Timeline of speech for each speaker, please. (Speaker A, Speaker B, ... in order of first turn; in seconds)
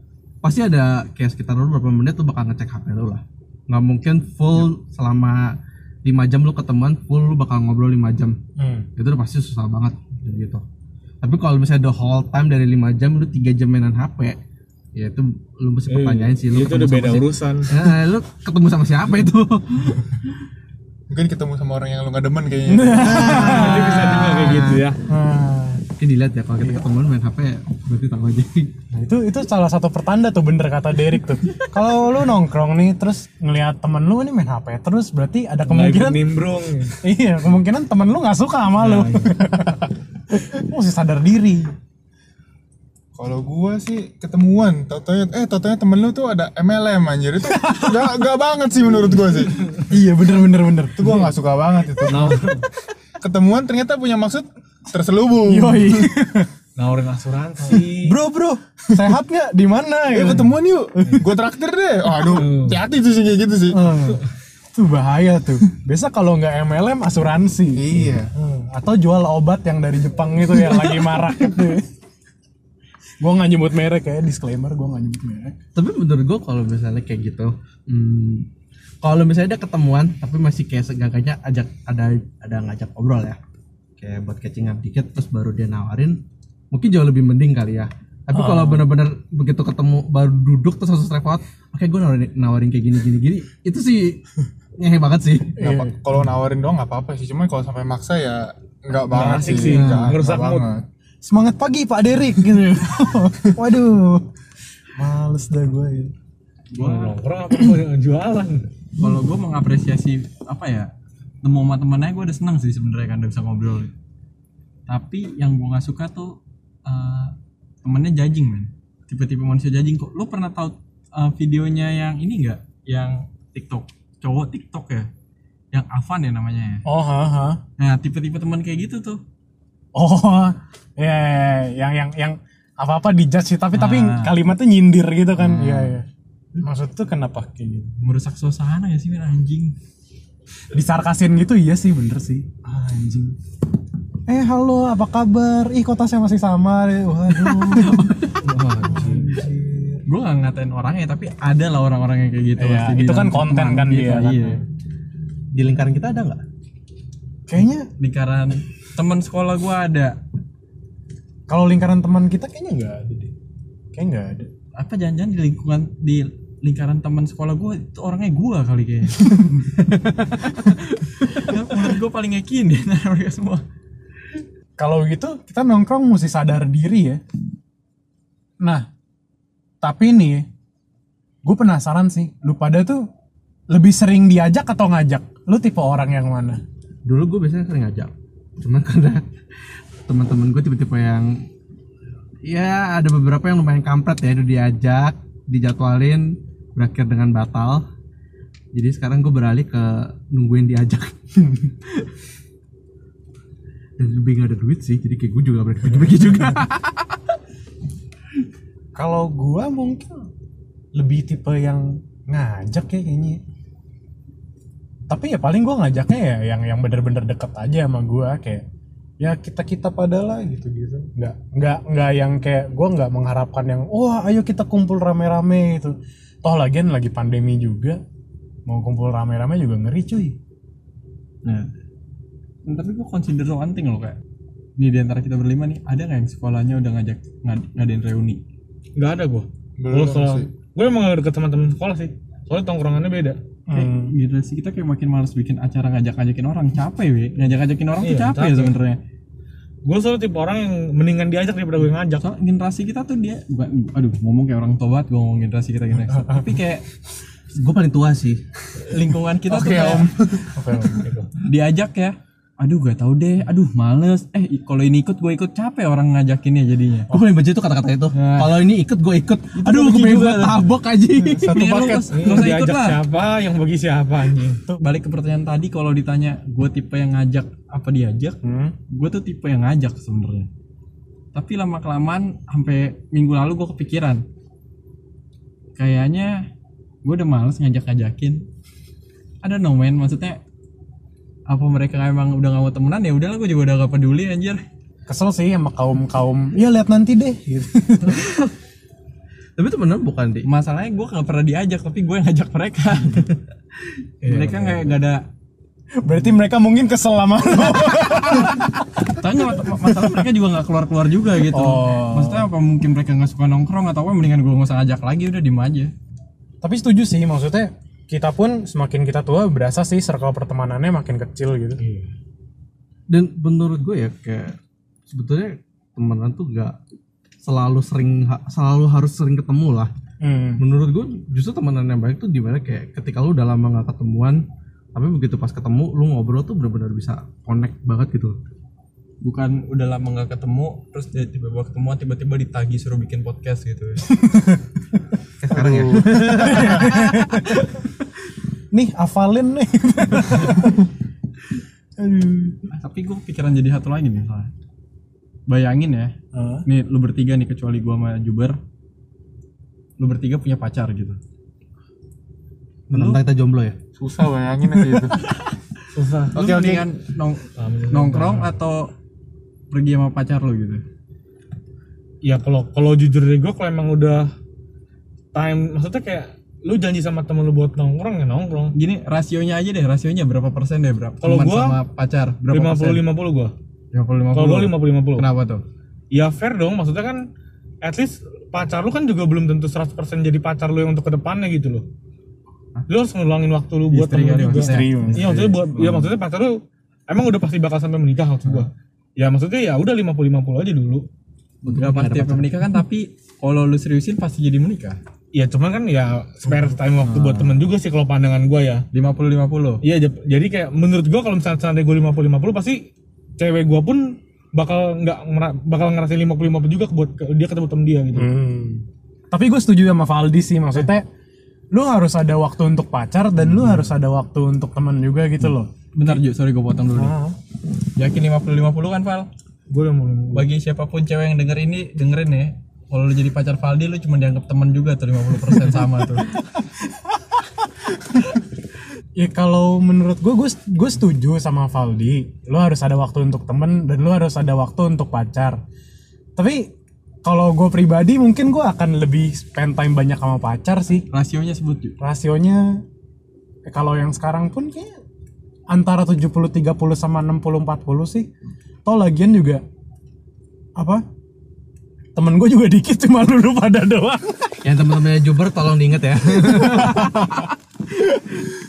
Speaker A: 0.4-8.4, 8.9-10.6, 11.2-14.4, 14.9-20.2, 23.0-24.9, 26.0-28.7, 70.6-71.5, 75.7-78.5, 79.0-83.4, 84.0-86.2, 86.7-94.2, 94.8-95.5, 99.7-100.1, 147.6-149.0, 155.5-156.4, 187.1-189.2, 190.0-191.4, 192.4-197.8, 198.7-202.1, 204.0-207.0, 257.5-258.4, 267.1-272.7, 298.1-298.4, 299.6-300.5, 304.2-304.9, 323.1-326.8, 327.4-329.9, 330.6-338.4, 345.4-347.2, 362.9-363.8, 401.6-402.5, 464.6-468.5
Speaker B: 8.6-8.9, 22.7-23.9, 25.1-25.8, 26.6-26.9, 28.9-36.2, 37.0-41.8, 47.5-48.2, 49.8-51.4, 52.1-52.5, 55.4-56.5, 57.7-61.3, 63.7-71.9, 73.2-75.5, 88.3-88.9, 95.6-96.0, 101.2-104.3, 105.0-106.1, 126.8-127.6, 129.9-136.1, 136.6-137.9, 140.7-143.3, 144.3-148.1, 148.8-150.0, 152.6-154.5, 157.5-157.9, 161.5-163.3, 163.9-164.5, 174.8-177.2, 178.6-178.8, 179.8-180.4, 181.4-183.1, 183.7-186.6, 206.0-206.4, 208.9-210.3, 210.9-213.4, 215.1-218.6, 219.2-228.0, 228.7-230.4, 243.7-244.2, 256.1-256.5, 260.5-261.1, 278.4-278.7, 295.1-298.2, 306.0-308.8, 311.5-312.5, 316.6-321.8, 330.2-330.6, 344.2-344.6, 346.1-347.6, 348.7-350.9, 352.0-352.6, 356.3-356.6, 394.5-395.6, 418.1-421.1, 421.7-426.2, 426.9-427.4, 436.9-437.4, 439.2-445.6, 446.4-446.7, 447.2-451.1, 452.0-452.8, 453.6-454.9, 455.7-458.3, 458.8-459.6, 460.8-461.0, 462.1-464.6, 466.4-467.4
Speaker C: 15.9-17.9, 23.2-25.0, 35.7-37.0, 52.1-52.6, 56.8-58.2, 62.2-62.8, 99.1-100.7, 106.7-108.6, 148.4-149.2, 238.9-243.4, 248.0-248.7, 249.8-252.2, 260.9-261.3, 271.4-274.6, 321.8-322.1, 365.9-366.4, 367.6-368.6, 372.2-374.3, 375.3-378.7, 381.2-381.8, 382.5-383.5, 384.3-385.3, 386.1-387.2, 387.8-391.8, 392.9-401.0, 405.3-408.8, 409.8-412.8, 413.4-418.3, 429.7-430.5
Speaker D: 21.1-23.6, 43.1-49.7, 51.0-52.5, 53.2-56.1, 60.1-64.0, 67.7-68.3, 95.6-100.8, 239.8-240.5, 259.5-260.5, 345.5-346.7, 363.9-365.2, 366.3-366.9
Speaker E: 38.8-39.3, 106.7-107.2, 109.0-110.9, 111.4-113.9, 114.9-125.1, 125.7-126.8, 127.8-129.2, 133.7-134.4, 135.6-135.9, 138.0-139.7, 150.1-154.6, 158.0-160.2, 164.8-173.6, 231.4-231.7, 232.7-234.2, 234.8-238.4, 243.7-249.0, 252.2-256.9, 258.8-260.1, 261.4-267.1, 268.1-268.7, 269.6-270.8, 271.3-273.0, 274.8-278.4, 278.9-280.5, 281.3-284.2, 285.8-286.4, 287.0-288.4, 289.4-290.4, 291.5-294.6, 300.4-303.3, 304.2-305.2, 308.0-315.9, 339.2-344.1, 352.7-354.5, 355.5-356.1, 356.7-358.6, 360.0-361.2, 362.9-363.2, 364.9-365.6, 366.3-368.9, 369.7-370.8, 378.7-383.1, 383.9-385.6, 393.9-396.1, 401.7-405.0, 407.2-407.5, 408.9-409.8, 425.9-427.1, 428.0-429.3, 430.3-436.4, 451.1-452.0